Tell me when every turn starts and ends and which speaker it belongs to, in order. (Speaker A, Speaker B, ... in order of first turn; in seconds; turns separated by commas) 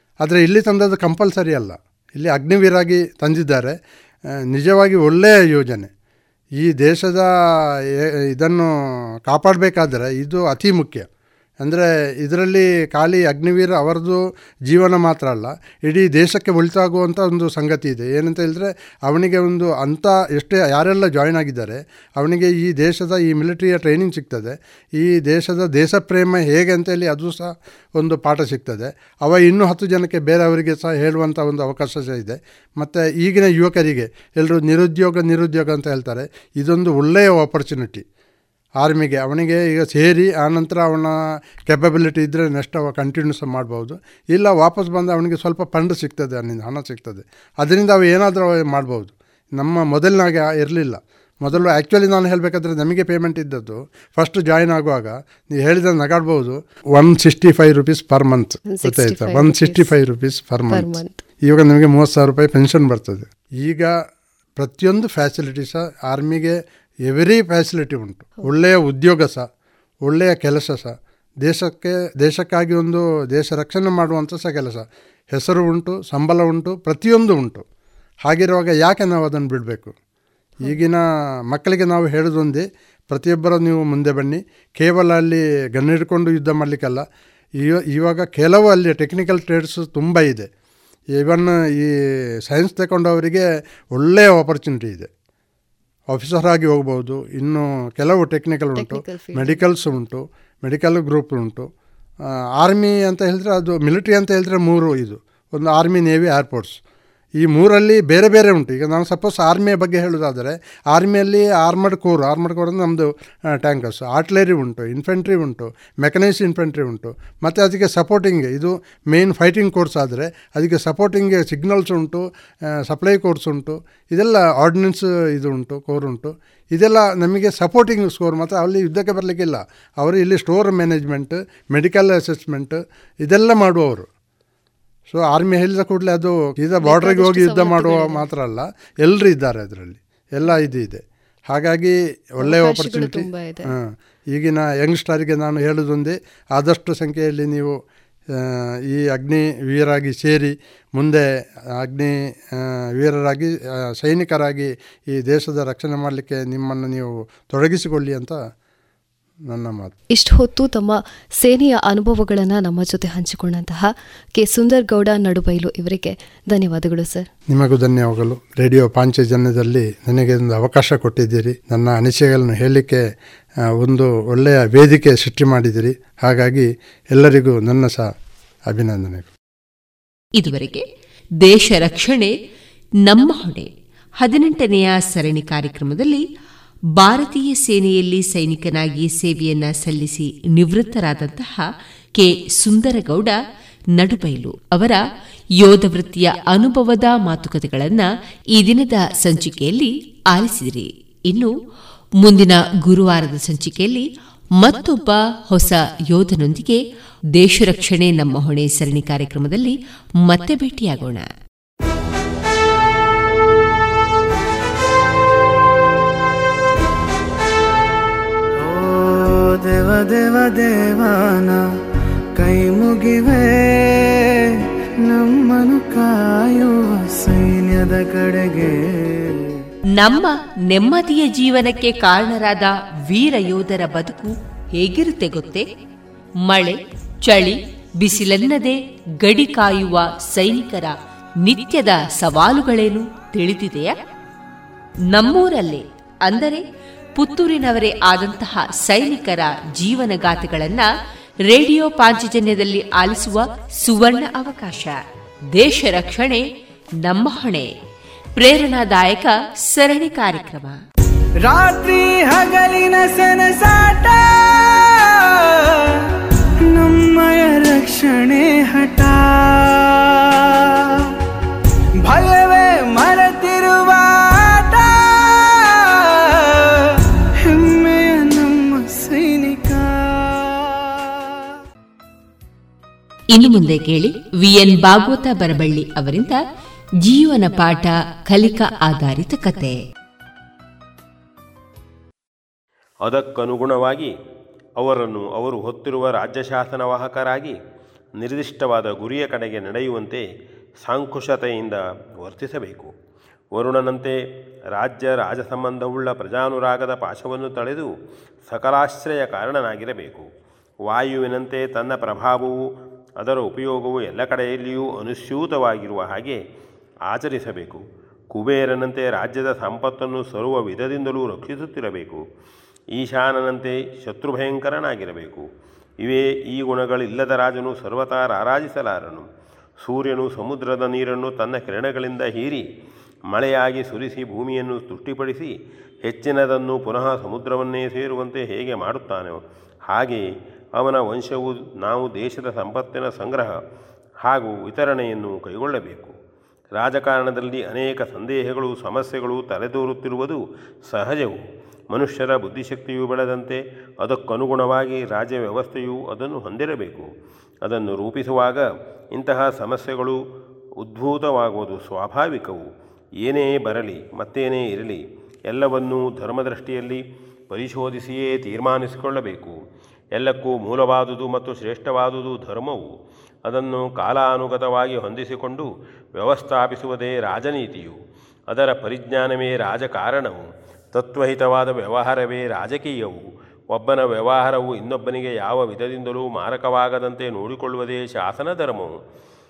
Speaker A: 0.2-3.8, Speaker A: 4.5-5.9, Speaker A: 6.6-7.3, Speaker A: 8.3-8.7, Speaker A: 9.3-11.1, Speaker A: 11.6-38.0, Speaker A: 38.8-41.1, Speaker A: 41.7-63.9, Speaker B: 51.5-51.8, Speaker B: 58.6-59.9, Speaker B: 60.7-61.2, Speaker A: 64.6-69.4, Speaker A: 70.0-77.6, Speaker A: 78.2-79.9, Speaker B: 80.6-80.9, Speaker A: 80.6-87.0, Speaker A: 87.6-90.5, Speaker A: 91.2-91.9, Speaker A: 92.5-95.1, Speaker A: 96.1-101.7, Speaker B: 98.7-99.7, Speaker A: 102.6-106.8, Speaker A: 107.4-122.2, Speaker A: 122.9-134.1, Speaker A: 135.1-147.7, Speaker B: 136.8-138.3, Speaker B: 140.4-140.7, Speaker B: 142.4-143.7, Speaker A: 148.4-151.2, Speaker A: 151.8-158.4, Speaker A: 159.5-159.9, Speaker B: 160.1-167.3, Speaker A: 167.5-173.0, Speaker A: 173.8-178.1, Speaker A: 178.7-179.3, Speaker C: 180.4-180.8, Speaker C: 181.4-182.3, Speaker C: 183.1-183.7, Speaker C: 184.2-186.2, Speaker C: 187.0-191.7, Speaker C: 192.2-193.3, Speaker C: 194.0-195.0, Speaker C: 195.6-201.5, Speaker C: 202.2-204.1, Speaker C: 204.6-206.8, Speaker C: 207.4-209.7, Speaker C: 210.2-211.2, Speaker D: 218.6-221.6, Speaker D: 222.4-224.5, Speaker D: 225.1-229.4, Speaker C: 230.0-235.7, Speaker C: 236.4-243.9, Speaker C: 245.1-246.6, Speaker C: 247.2-250.9, Speaker C: 251.5-254.9, Speaker C: 255.6-256.4, Speaker C: 257.0-257.7, Speaker C: 258.4-260.8, Speaker D: 261.4-265.6, Speaker D: 266.7-270.6, Speaker D: 272.0-276.6, Speaker D: 277.4-280.6, Speaker C: 283.3-286.4, Speaker C: 287.0-289.8, Speaker E: 293.0-294.1, Speaker E: 294.8-297.6, Speaker E: 298.2-300.2, Speaker E: 300.8-302.9, Speaker E: 303.5-304.1, Speaker E: 304.7-307.9, Speaker E: 308.5-310.3, Speaker E: 310.9-312.6, Speaker E: 313.2-316.4, Speaker E: 317.1-322.2, Speaker E: 322.9-325.4, Speaker E: 326.0-329.3, Speaker E: 329.8-332.6, Speaker E: 333.3-335.5, Speaker E: 336.0-340.2, Speaker E: 340.8-343.5, Speaker E: 344.2-346.1, Speaker E: 346.8-351.4, Speaker E: 351.9-357.1, Speaker E: 357.6-360.2, Speaker E: 360.8-362.6, Speaker E: 363.2-369.5, Speaker E: 370.1-372.9, Speaker E: 373.5-378.0, Speaker E: 378.5-383.2, Speaker E: 383.7-388.9